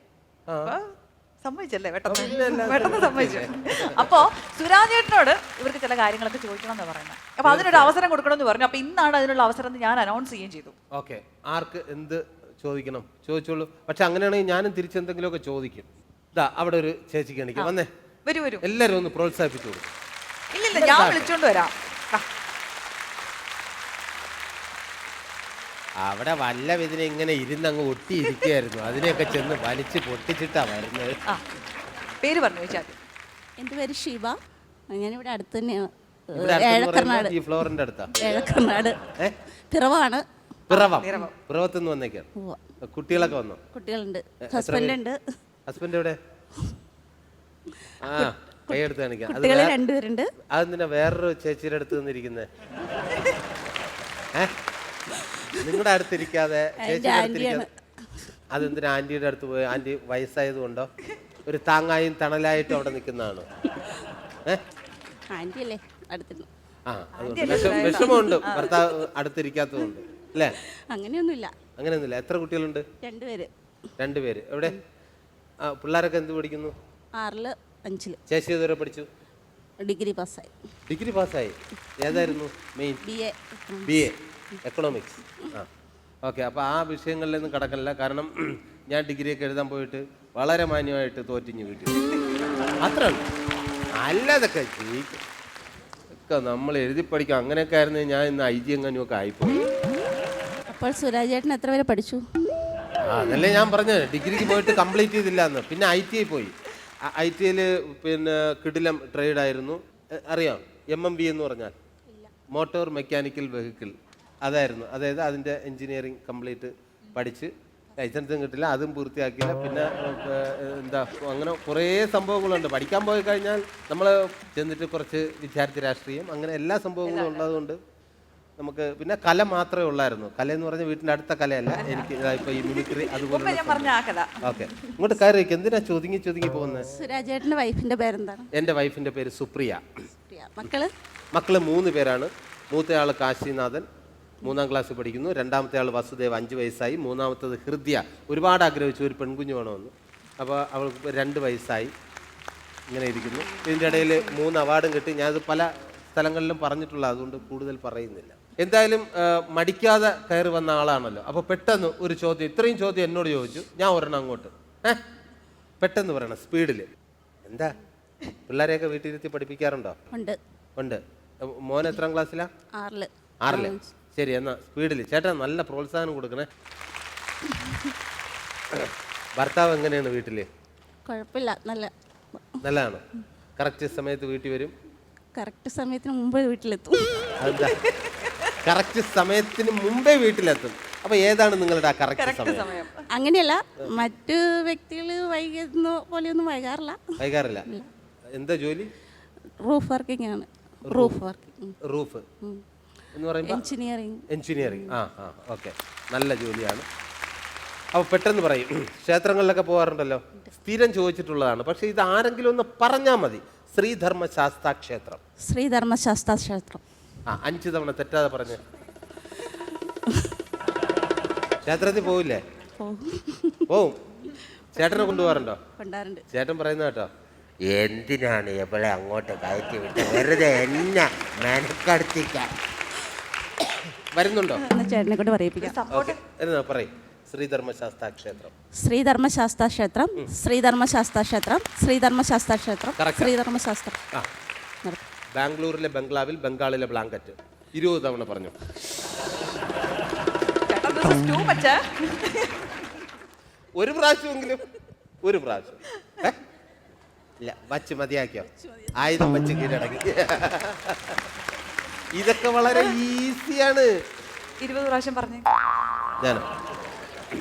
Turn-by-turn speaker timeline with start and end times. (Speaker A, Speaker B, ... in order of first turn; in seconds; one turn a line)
Speaker A: 0.5-0.8
Speaker B: 0.6-10.8
Speaker A: 2.1-4.2
Speaker A: 7.4-8.0
Speaker A: 10.9-17.9
Speaker B: 18.3-18.6
Speaker A: 18.6-19.9
Speaker B: 20.5-22.2
Speaker A: 20.8-21.3
Speaker A: 26.0-31.2
Speaker B: 32.2-33.0
Speaker C: 33.6-34.4
Speaker C: 34.9-39.1
Speaker A: 36.4-38.1
Speaker C: 39.7-40.2
Speaker B: 40.7-41.3
Speaker A: 40.7-42.3
Speaker A: 42.8-43.7
Speaker C: 43.7-45.2
Speaker A: 44.4-45.0
Speaker A: 45.7-46.2
Speaker A: 48.0-49.8
Speaker C: 48.7-50.3
Speaker A: 50.5-52.5
Speaker C: 55.2-55.7
Speaker A: 55.6-57.7
Speaker C: 56.8-57.7
Speaker A: 58.5-60.9
Speaker A: 61.5-63.5
Speaker C: 65.3-66.5
Speaker A: 66.9-70.6
Speaker B: 67.2-68.9
Speaker C: 67.4-68.2
Speaker C: 70.9-71.5
Speaker A: 71.8-72.9
Speaker C: 73.0-73.5
Speaker A: 74.0-74.8
Speaker A: 75.6-76.8
Speaker C: 77.2-78.2
Speaker A: 78.3-79.1
Speaker C: 79.9-80.5
Speaker A: 80.9-83.0
Speaker C: 83.0-84.1
Speaker A: 83.9-85.7
Speaker A: 86.2-92.0
Speaker A: 92.8-93.2
Speaker A: 94.0-95.2
Speaker A: 96.3-99.7
Speaker C: 100.7-102.2
Speaker A: 103.0-111.8
Speaker A: 112.5-127.8
Speaker B: 127.0-127.6
Speaker A: 128.6-136.9
Speaker B: 132.6-135.0
Speaker C: 136.9-138.5
Speaker A: 138.5-139.8
Speaker C: 140.2-140.9
Speaker A: 141.3-143.9
Speaker A: 144.5-151.9
Speaker A: 152.9-165.0
Speaker C: 153.2-154.4
Speaker A: 165.8-166.9
Speaker A: 167.4-167.8
Speaker A: 168.5-170.0
Speaker C: 170.1-170.4
Speaker A: 170.8-172.5
Speaker C: 172.8-173.9
Speaker A: 173.4-176.5
Speaker A: 178.7-180.5
Speaker C: 181.1-181.9
Speaker A: 182.6-183.0
Speaker A: 183.6-184.7
Speaker C: 185.4-187.3
Speaker A: 187.4-187.8
Speaker B: 187.6-188.6
Speaker A: 188.6-192.7
Speaker B: 192.1-193.1
Speaker C: 193.2-197.9
Speaker A: 197.2-197.7
Speaker A: 198.3-198.9
Speaker C: 199.7-201.8
Speaker A: 200.9-201.2
Speaker A: 201.9-202.2
Speaker A: 203.2-203.7
Speaker C: 203.4-205.0
Speaker A: 204.3-206.9
Speaker A: 207.9-215.2
Speaker C: 215.5-216.8
Speaker A: 217.3-218.6
Speaker A: 221.7-222.4
Speaker C: 222.8-223.8
Speaker A: 223.7-224.0
Speaker C: 224.3-226.2
Speaker A: 224.8-225.6
Speaker A: 226.3-227.1
Speaker A: 227.7-232.5
Speaker A: 234.1-234.6
Speaker C: 234.6-235.8
Speaker B: 235.6-236.2
Speaker A: 235.9-238.5
Speaker C: 238.8-244.0
Speaker A: 243.0-243.3
Speaker A: 245.4-248.6
Speaker B: 250.7-252.8
Speaker A: 253.8-254.7
Speaker A: 255.2-256.4
Speaker A: 257.4-261.2
Speaker A: 262.1-263.9
Speaker B: 264.6-265.5
Speaker A: 266.2-266.5